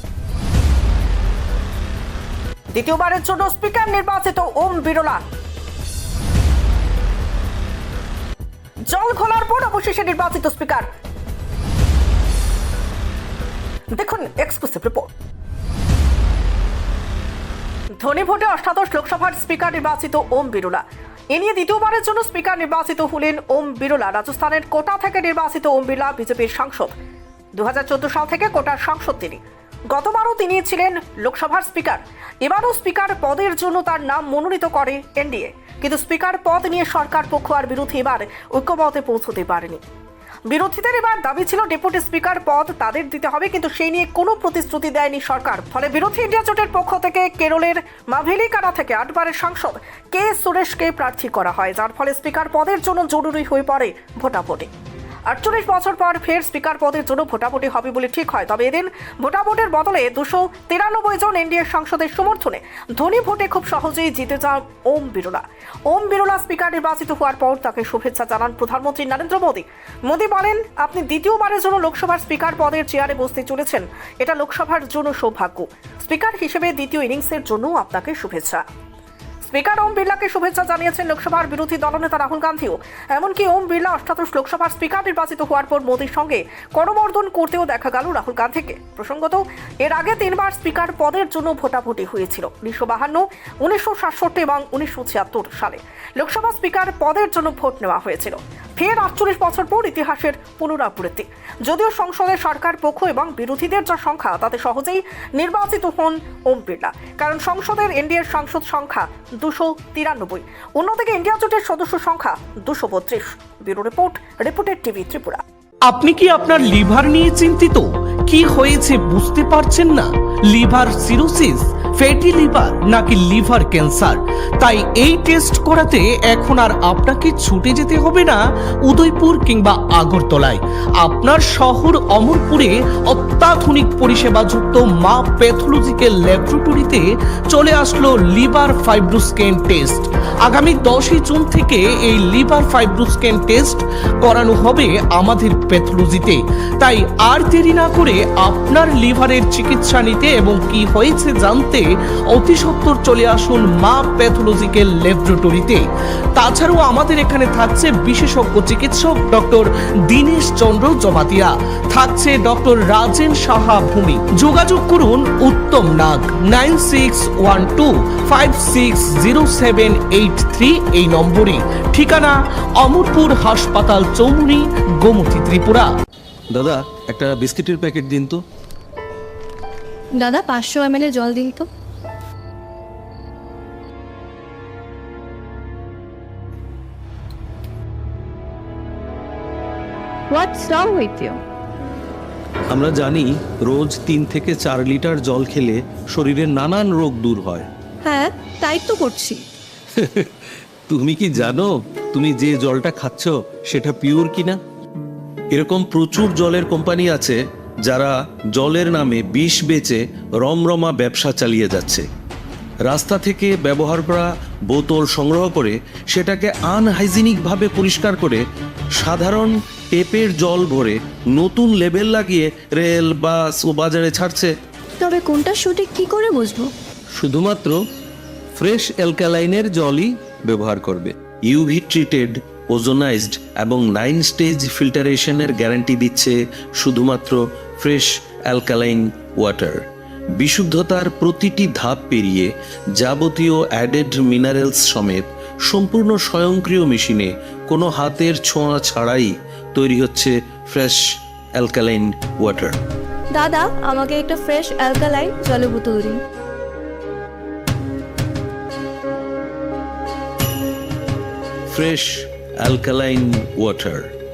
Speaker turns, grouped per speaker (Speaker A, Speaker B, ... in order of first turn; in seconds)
Speaker A: 2.7-5.2, 8.9-10.8, 13.9-15.1, 18.0-26.9, 27.6-29.4, 29.9-39.8, 40.5-54.7, 55.3-78.6, 79.4-115.4
Speaker B: 115.9-155.8, 156.3-175.9
Speaker C: 176.5-178.4, 192.7-197.7, 199.9-200.3, 200.9-204.6, 205.5-212.1, 212.8-218.4, 219.0-224.5, 227.2-227.8, 228.6-239.8, 240.4-251.0, 251.6-252.8, 261.7-264.1
Speaker D: 180.2-181.7, 190.3-191.4, 198.0-199.4, 225.0-226.7, 253.3-256.2